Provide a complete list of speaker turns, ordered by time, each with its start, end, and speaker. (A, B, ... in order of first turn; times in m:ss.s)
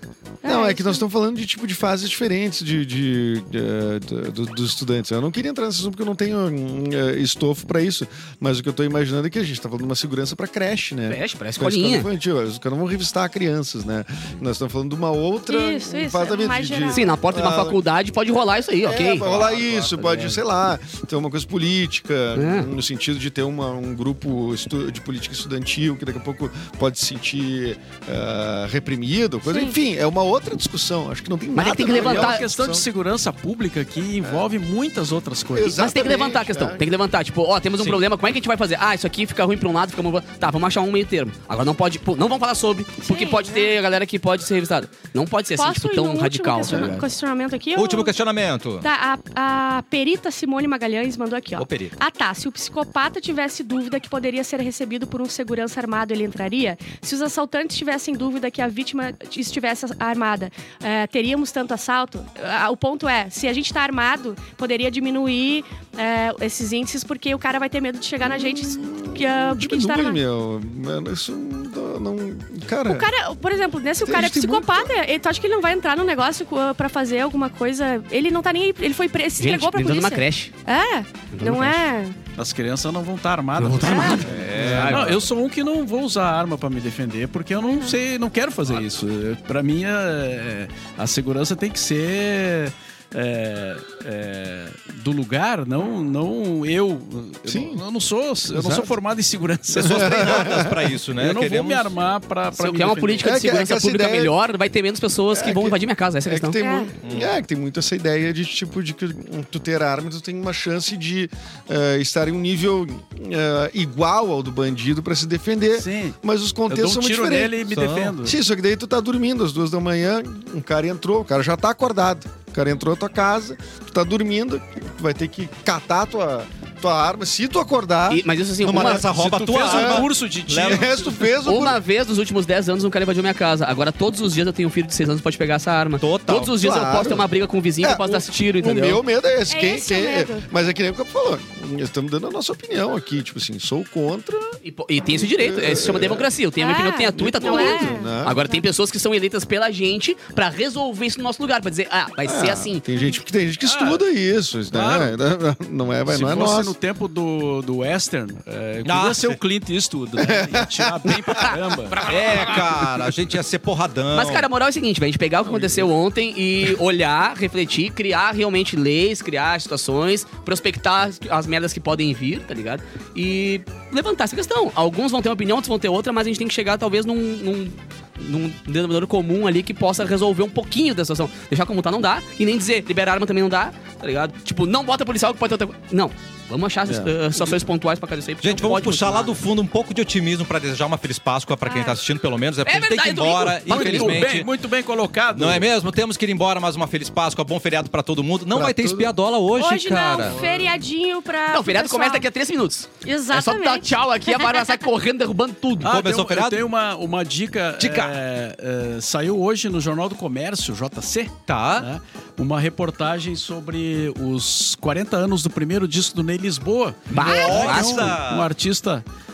0:00.4-0:01.0 A
0:00.4-0:17.8 B
0:11.1-0:12.1 C
0:15.5-0:17.0 A
0:16.9-0:19.3 C
0:18.8-0:32.8 B
0:19.2-0:20.4 D
0:22.3-0:22.7 C
0:29.4-0:29.8 A
0:31.5-0:32.5 C
0:31.9-0:35.8 E
0:35.5-0:36.9 B
0:35.7-0:47.0 C
0:43.0-0:43.7 A
0:45.6-0:48.1 A
0:47.7-0:48.8 D
0:48.8-1:10.2 A
0:51.6-0:52.0 D
1:08.2-1:13.1 B
1:12.9-1:22.2 A
1:14.0-1:14.9 B
1:19.4-1:20.5 C
1:21.3-1:21.8 C
1:22.4-1:40.5 E
1:23.6-1:25.2 C
1:23.8-1:24.2 A
1:24.2-1:25.2 D
1:24.6-1:25.0 B
1:27.6-1:28.0 A
1:37.5-1:37.8 B
1:38.5-1:38.9 B
1:39.7-1:40.9 B
1:39.8-1:41.9 D
1:41.1-1:43.3 E
1:42.5-1:46.6 C
1:43.2-1:44.3 B
1:45.3-1:57.7 B
1:46.6-1:46.9 A
1:47.0-1:47.3 D
1:55.7-1:56.2 E
1:56.7-1:58.4 E
1:57.7-1:58.1 D
1:58.2-2:09.0 B
2:08.1-2:09.0 C
2:08.6-2:10.9 D
2:09.0-2:11.3 E
2:09.6-2:11.8 B
2:11.4-2:19.0 C
2:16.0-2:16.5 D
2:16.5-2:17.3 B
2:17.8-2:24.6 B
2:19.5-2:20.4 A
2:24.6-2:32.8 C
2:25.1-2:26.3 B
2:26.6-2:28.6 A
2:27.2-2:28.4 B
2:32.2-2:36.7 B
2:33.6-2:34.0 E
2:34.7-2:35.2 E
2:36.1-2:42.1 E
2:38.8-2:39.4 D
2:40.2-2:41.4 B
2:41.4-2:42.9 C
2:42.0-2:44.5 D
2:44.1-3:09.4 C
2:45.5-2:45.9 E
3:06.8-3:07.4 B
3:08.4-3:14.5 D
3:11.6-3:12.0 A
3:12.6-3:14.3 C
3:13.6-3:15.7 E
3:15.3-3:20.4 D
3:18.5-3:19.1 B
3:19.6-3:22.2 A
3:20.2-3:20.7 E
3:21.5-3:26.0 C
3:23.0-3:24.5 A
3:25.8-3:26.7 D
3:25.8-3:39.0 E
3:27.8-3:28.1 D
3:31.5-3:31.9 D
3:37.1-3:38.5 D
3:37.1-3:38.1 C